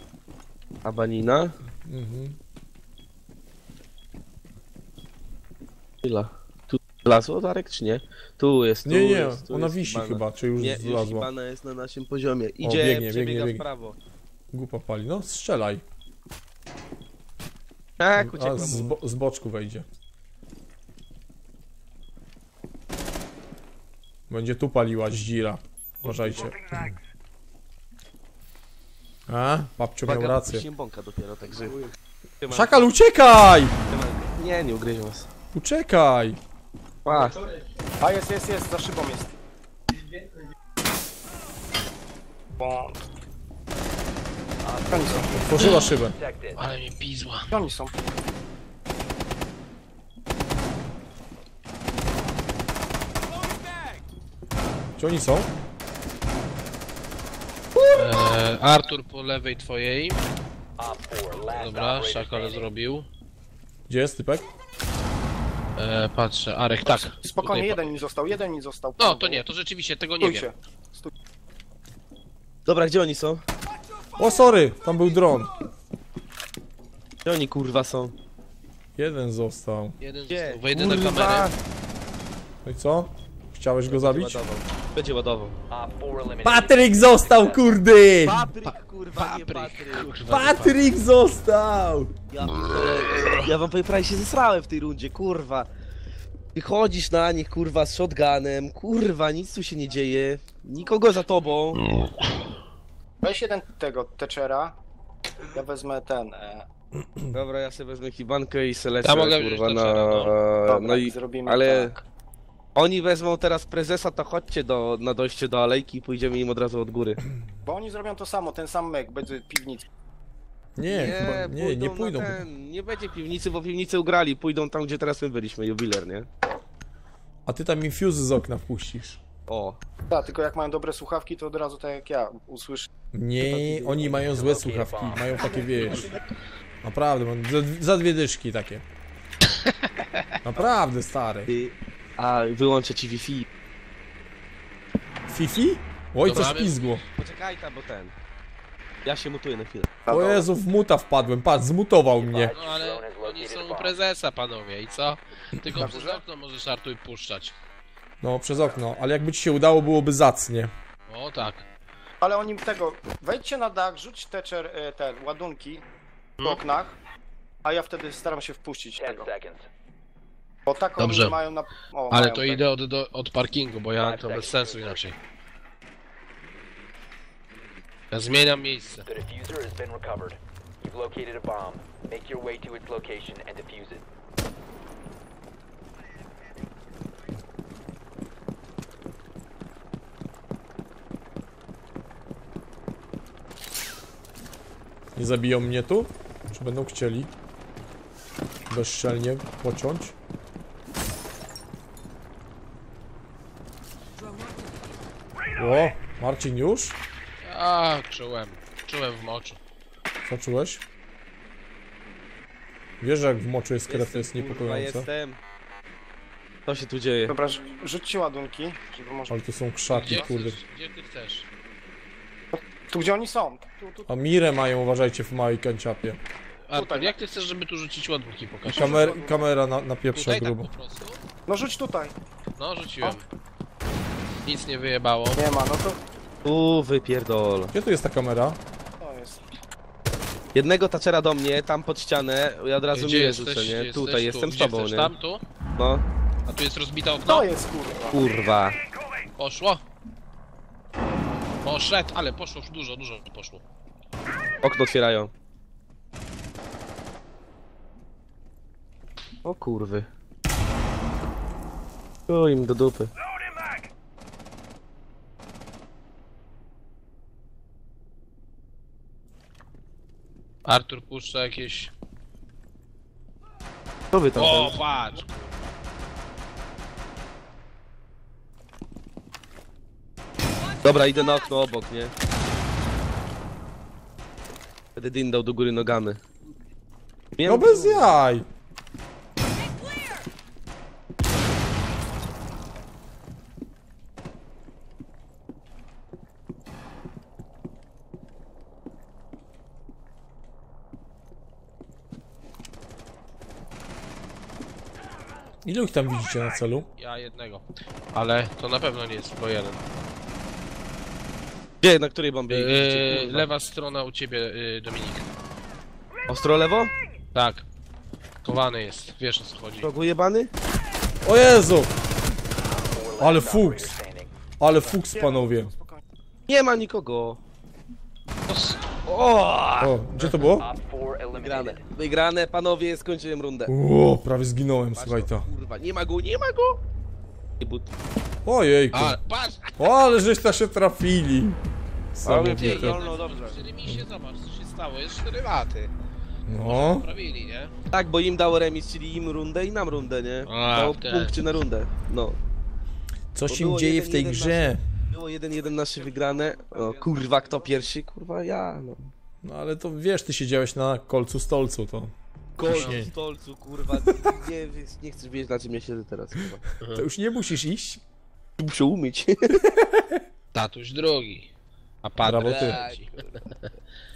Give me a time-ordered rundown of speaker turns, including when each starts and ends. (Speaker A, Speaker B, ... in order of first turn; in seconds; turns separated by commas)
Speaker A: 0.8-1.6, Speaker B: 1.8-2.4, Speaker A: 6.0-14.0, Speaker B: 8.8-11.3, Speaker B: 12.6-13.7, Speaker B: 14.5-15.8, Speaker A: 18.0-19.0, Speaker B: 18.2-19.9, Speaker B: 24.3-27.0, Speaker A: 26.0-26.5, Speaker B: 29.3-30.7, Speaker A: 30.1-31.8, Speaker A: 32.4-32.8, Speaker B: 32.5-33.8, Speaker A: 33.9-35.3, Speaker B: 35.5-36.4, Speaker A: 37.0-37.4, Speaker C: 38.0-39.3, Speaker C: 42.6-43.0, Speaker D: 44.6-45.3, Speaker C: 44.9-45.3, Speaker B: 45.3-46.2, Speaker D: 46.0-46.6, Speaker E: 46.6-47.5, Speaker C: 47.5-47.9, Speaker B: 55.0-55.5, Speaker E: 57.9-60.2, Speaker D: 60.8-62.7, Speaker E: 61.5-63.1, Speaker B: 63.9-64.5, Speaker E: 65.8-67.9, Speaker C: 66.9-69.5, Speaker E: 69.0-70.5, Speaker C: 70.2-71.1, Speaker A: 72.7-73.4, Speaker B: 74.2-75.5, Speaker A: 77.2-78.2, Speaker B: 79.0-80.0, Speaker E: 80.0-81.5, Speaker A: 80.3-81.6, Speaker B: 82.7-84.4, Speaker A: 83.9-85.6, Speaker D: 85.7-87.8, Speaker B: 86.4-88.5, Speaker A: 88.2-90.1, Speaker E: 89.2-90.8, Speaker B: 90.3-92.1, Speaker A: 92.3-95.7, Speaker E: 93.1-93.4, Speaker A: 96.5-101.9, Speaker C: 103.2-104.8, Speaker C: 105.5-106.7, Speaker A: 107.3-111.9, Speaker E: 109.0-110.3, Speaker C: 110.7-112.0, Speaker A: 112.8-117.2, Speaker C: 117.7-119.9, Speaker B: 120.8-122.5, Speaker A: 120.9-126.3, Speaker B: 127.5-129.2, Speaker A: 129.5-129.8, Speaker C: 130.1-132.9, Speaker B: 133.1-136.1, Speaker A: 133.4-134.3, Speaker D: 134.3-135.4, Speaker B: 136.8-138.8, Speaker E: 139.5-140.3, Speaker B: 140.4-141.5, Speaker A: 141.5-143.5, Speaker B: 145.3-147.0, Speaker E: 146.2-147.0, Speaker A: 147.2-148.1, Speaker A: 149.0-150.1, Speaker C: 150.1-150.5, Speaker B: 150.1-152.5, Speaker D: 152.1-154.0, Speaker E: 152.5-157.5, Speaker C: 155.7-156.2, Speaker B: 158.2-160.7, Speaker E: 161.1-161.7, Speaker C: 162.2-165.8, Speaker C: 166.4-167.0, Speaker C: 167.6-169.3, Speaker D: 169.0-169.7, Speaker C: 170.7-172.7, Speaker E: 171.0-171.4, Speaker E: 172.1-175.2, Speaker D: 174.0-175.1, Speaker E: 178.1-179.1, Speaker D: 179.1-184.0, Speaker B: 195.2-197.3, Speaker B: 198.7-200.2, Speaker B: 205.6-207.0, Speaker E: 207.4-209.6, Speaker B: 210.2-210.8, Speaker B: 213.0-215.1, Speaker A: 213.9-215.4, Speaker A: 216.7-217.3, Speaker C: 217.3-219.4, Speaker B: 219.3-220.6, Speaker E: 219.9-221.5, Speaker C: 222.5-224.1, Speaker B: 224.1-226.2, Speaker E: 226.7-229.1, Speaker C: 226.8-227.2, Speaker C: 228.7-229.4, Speaker B: 228.7-230.7, Speaker E: 230.1-231.2, Speaker C: 231.5-232.2, Speaker E: 232.6-233.2, Speaker E: 234.4-235.4, Speaker C: 235.3-236.0, Speaker A: 236.4-237.7, Speaker B: 237.7-238.6, Speaker C: 239.0-239.4, Speaker A: 240.5-245.1, Speaker E: 242.9-245.4, Speaker A: 245.8-246.0, Speaker E: 246.5-247.5, Speaker C: 247.2-248.3, Speaker A: 248.1-248.8, Speaker E: 249.4-249.8, Speaker E: 251.6-253.6, Speaker A: 254.6-255.3, Speaker A: 259.4-260.1, Speaker A: 262.3-263.1, Speaker E: 270.6-271.9, Speaker A: 274.1-274.8, Speaker E: 274.3-275.4, Speaker A: 280.8-282.1, Speaker A: 285.0-286.2, Speaker A: 287.4-288.2, Speaker B: 287.4-288.5, Speaker B: 305.6-306.9, Speaker E: 307.0-309.8, Speaker A: 311.8-313.5, Speaker E: 312.5-315.3, Speaker A: 316.3-316.9, Speaker E: 317.3-317.7, Speaker E: 318.4-319.9, Speaker A: 319.8-320.5, Speaker B: 321.2-321.9, Speaker D: 322.7-324.3, Speaker B: 323.2-324.0, Speaker B: 324.6-325.7, Speaker C: 325.1-326.0, Speaker A: 326.5-327.4, Speaker E: 328.5-328.8, Speaker A: 329.1-330.0, Speaker B: 329.8-330.7, Speaker D: 330.6-331.8, Speaker A: 331.4-333.7, Speaker B: 333.7-335.5, Speaker A: 334.9-336.8, Speaker A: 337.6-337.9, Speaker B: 338.4-339.2, Speaker E: 338.9-339.8, Speaker B: 339.8-341.6, Speaker B: 342.1-343.0, Speaker A: 342.2-343.6, Speaker E: 342.6-345.9, Speaker B: 346.5-347.1, Speaker E: 346.6-347.7, Speaker A: 347.9-352.4, Speaker E: 350.5-351.4, Speaker B: 353.3-354.8, Speaker A: 353.5-359.1, Speaker B: 359.4-362.1, Speaker A: 362.6-366.7, Speaker B: 362.6-363.1, Speaker E: 362.7-363.0, Speaker B: 366.9-368.0, Speaker A: 368.6-369.7, Speaker B: 369.7-370.2, Speaker E: 370.5-371.5, Speaker E: 372.0-373.7, Speaker B: 372.2-372.8, Speaker A: 372.3-373.4